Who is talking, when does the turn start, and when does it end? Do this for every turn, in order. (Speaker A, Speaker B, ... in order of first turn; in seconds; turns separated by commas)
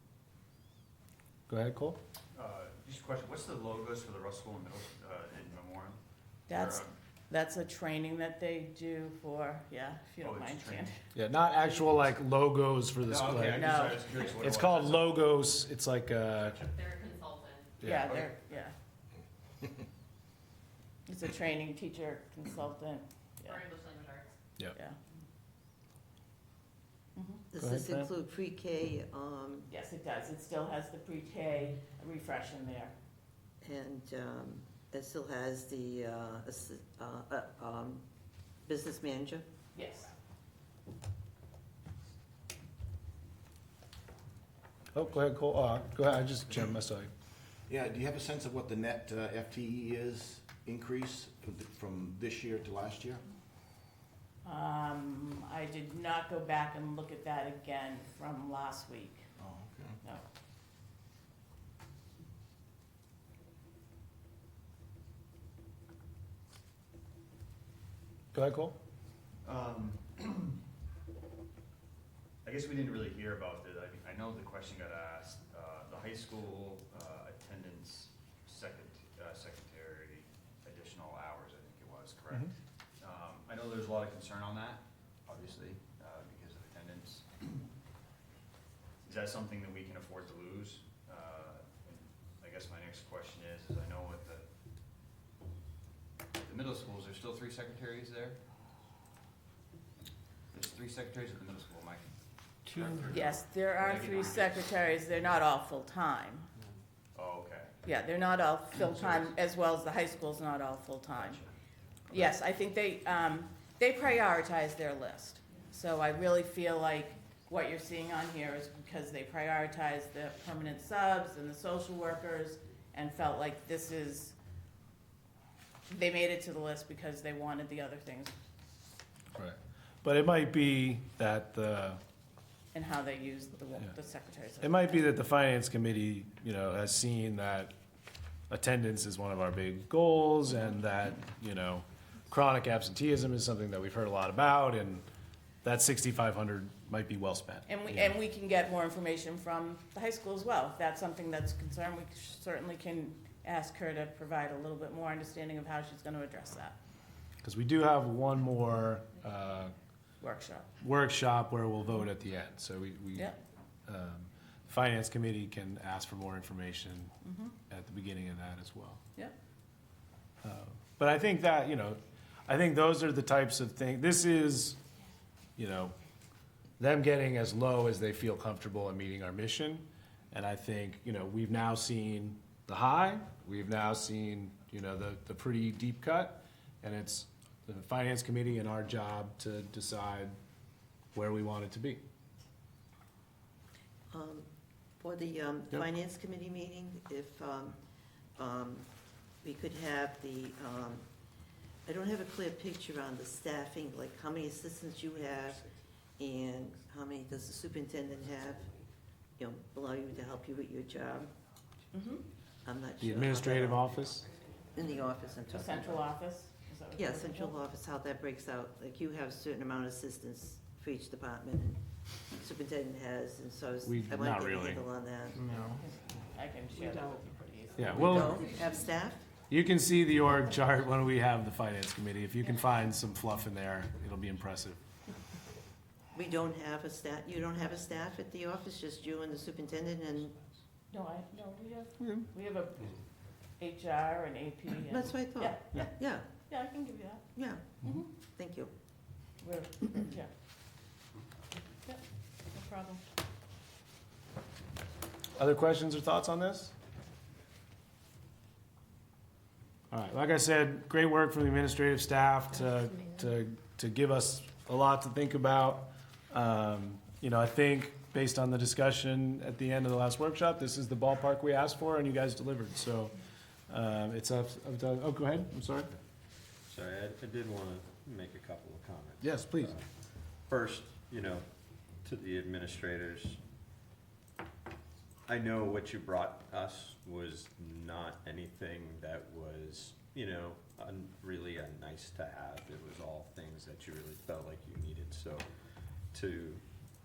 Speaker A: 1.5-2.0, Speaker B: 2.4-6.9, Speaker C: 6.5-11.0, Speaker B: 10.2-10.9, Speaker A: 11.2-16.7, Speaker B: 13.1-15.1, Speaker C: 13.5-14.1, Speaker D: 16.7-17.7, Speaker A: 17.8-18.1, Speaker C: 17.8-18.7, Speaker B: 17.9-18.3, Speaker C: 21.1-23.6, Speaker D: 23.4-24.3, Speaker C: 27.1-27.4, Speaker E: 27.5-29.7, Speaker A: 27.6-28.1, Speaker C: 29.7-32.9, Speaker E: 33.6-38.0, Speaker E: 38.7-39.5, Speaker C: 39.7-40.1, Speaker A: 44.9-47.1, Speaker F: 47.7-53.2, Speaker C: 54.4-59.3, Speaker F: 59.4-60.0, Speaker A: 68.3-68.8, Speaker B: 69.4-70.6, Speaker B: 72.5-87.6, Speaker B: 89.0-94.5, Speaker B: 96.3-98.4, Speaker B: 100.5-102.1, Speaker B: 102.7-104.6, Speaker G: 102.7-103.1, Speaker C: 103.1-106.5, Speaker B: 107.2-107.7, Speaker C: 107.8-111.4, Speaker B: 108.8-109.3, Speaker B: 111.2-111.5, Speaker C: 112.1-124.4, Speaker C: 125.9-128.3, Speaker A: 129.3-132.0, Speaker C: 132.7-135.1, Speaker A: 134.6-137.7, Speaker A: 138.5-145.1, Speaker A: 145.6-148.1, Speaker C: 147.7-156.8, Speaker A: 157.4-159.7, Speaker C: 160.2-160.7, Speaker A: 160.8-163.3, Speaker A: 163.9-167.1, Speaker C: 167.2-167.6, Speaker A: 167.7-169.0, Speaker A: 170.4-174.8, Speaker A: 175.6-175.9, Speaker A: 176.8-190.3, Speaker A: 191.1-192.0, Speaker E: 194.1-194.5, Speaker E: 195.0-197.8, Speaker E: 198.4-198.9, Speaker E: 199.4-201.1, Speaker E: 201.9-205.6, Speaker E: 206.2-208.7, Speaker E: 209.4-211.3, Speaker C: 211.9-212.2, Speaker E: 212.7-213.9, Speaker A: 213.0-214.3, Speaker D: 214.0-214.9, Speaker E: 214.7-216.1, Speaker C: 215.5-217.6, Speaker E: 216.9-221.8, Speaker E: 222.4-225.5, Speaker A: 223.8-224.8, Speaker G: 225.3-225.8, Speaker C: 225.5-228.6, Speaker G: 226.8-227.2, Speaker A: 227.8-228.4, Speaker G: 227.8-228.8, Speaker E: 228.0-229.3, Speaker A: 229.5-234.8, Speaker E: 236.1-240.3, Speaker C: 240.9-243.0, Speaker A: 242.0-242.2, Speaker C: 243.6-247.2, Speaker E: 244.9-246.3, Speaker E: 247.3-247.7, Speaker E: 248.3-248.7, Speaker C: 249.4-250.3, Speaker C: 251.8-253.0, Speaker A: 255.4-256.7, Speaker A: 259.9-273.1, Speaker A: 273.7-275.9, Speaker G: 276.6-279.2, Speaker A: 279.2-279.8, Speaker G: 280.2-281.4, Speaker G: 282.0-283.4, Speaker G: 285.3-295.4, Speaker G: 296.1-296.6